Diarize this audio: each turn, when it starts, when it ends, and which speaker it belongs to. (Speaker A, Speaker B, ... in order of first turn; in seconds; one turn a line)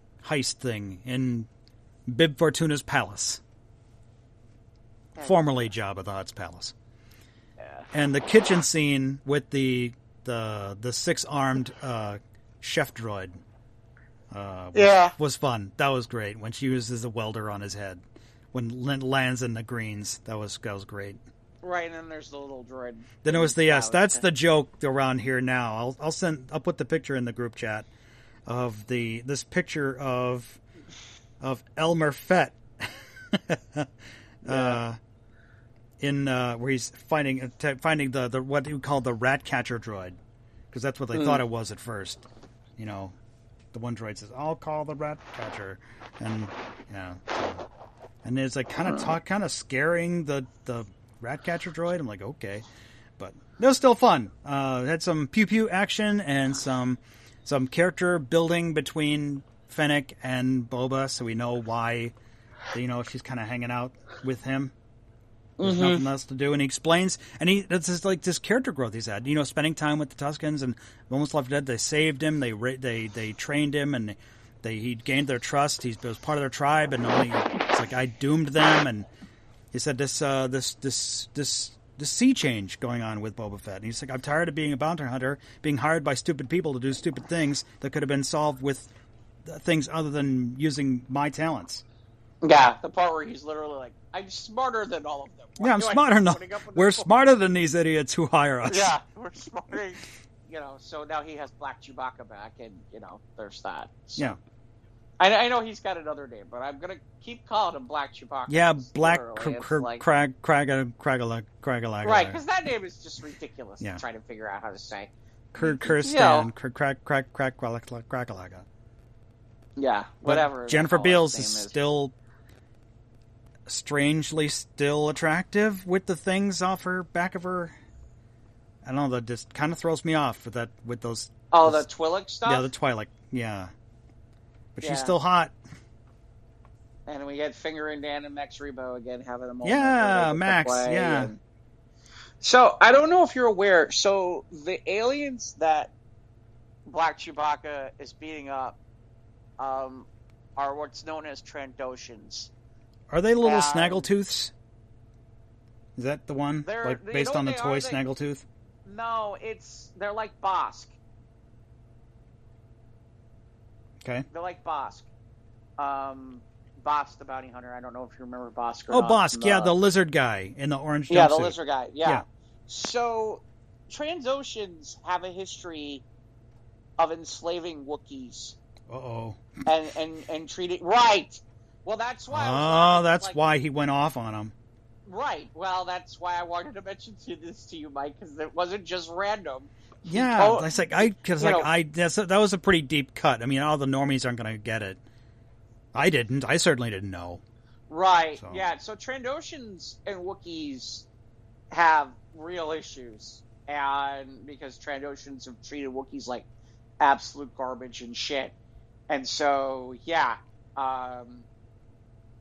Speaker A: 0.2-1.5
Speaker A: 2.1-3.4
Speaker B: 5.2-5.5
Speaker A: 5.2-6.7
Speaker B: 7.6-7.9
Speaker A: 7.9-13.4
Speaker A: 14.3-21.2
Speaker B: 14.7-15.1
Speaker B: 21.6-24.2
Speaker A: 23.2-27.9
Speaker A: 28.4-30.6
Speaker A: 31.4-33.9
Speaker A: 34.4-35.0
Speaker B: 34.5-34.7
Speaker A: 36.0-40.2
Speaker A: 40.7-42.2
Speaker B: 41.1-41.4
Speaker A: 42.8-43.1
Speaker A: 43.7-47.6
Speaker A: 48.2-52.6
Speaker B: 48.8-49.1
Speaker A: 53.2-62.1
Speaker A: 62.7-64.7
Speaker B: 65.6-66.0
Speaker A: 65.6-79.1
Speaker A: 79.7-88.9
Speaker A: 89.4-91.8
Speaker B: 92.4-97.1
Speaker A: 95.6-99.0
Speaker B: 98.7-104.4
Speaker B: 105.2-110.0
Speaker A: 108.5-112.4
Speaker B: 112.0-116.5
Speaker A: 115.5-118.6
Speaker B: 119.8-121.7
Speaker A: 120.2-122.1
Speaker A: 123.7-127.7
Speaker A: 128.8-131.9
Speaker B: 131.5-132.7
Speaker A: 132.4-133.7
Speaker A: 134.8-135.5
Speaker B: 134.8-135.1
Speaker B: 137.1-141.4
Speaker A: 139.6-141.3
Speaker B: 142.4-145.9
Speaker B: 146.8-148.8
Speaker B: 149.6-152.5
Speaker A: 153.1-154.5
Speaker B: 153.4-154.1
Speaker A: 155.9-158.4
Speaker B: 156.6-158.0
Speaker B: 158.8-160.9
Speaker A: 164.0-164.3
Speaker B: 164.3-165.1
Speaker B: 165.8-169.7
Speaker A: 168.9-172.2
Speaker B: 171.1-176.0
Speaker B: 177.0-178.6
Speaker A: 178.9-179.6
Speaker B: 179.7-183.3
Speaker A: 182.3-184.5
Speaker B: 185.1-191.7
Speaker A: 190.1-195.0
Speaker A: 195.9-197.4
Speaker B: 197.9-201.1
Speaker A: 198.4-198.6
Speaker B: 201.7-206.4
Speaker B: 207.0-208.5
Speaker B: 209.1-211.4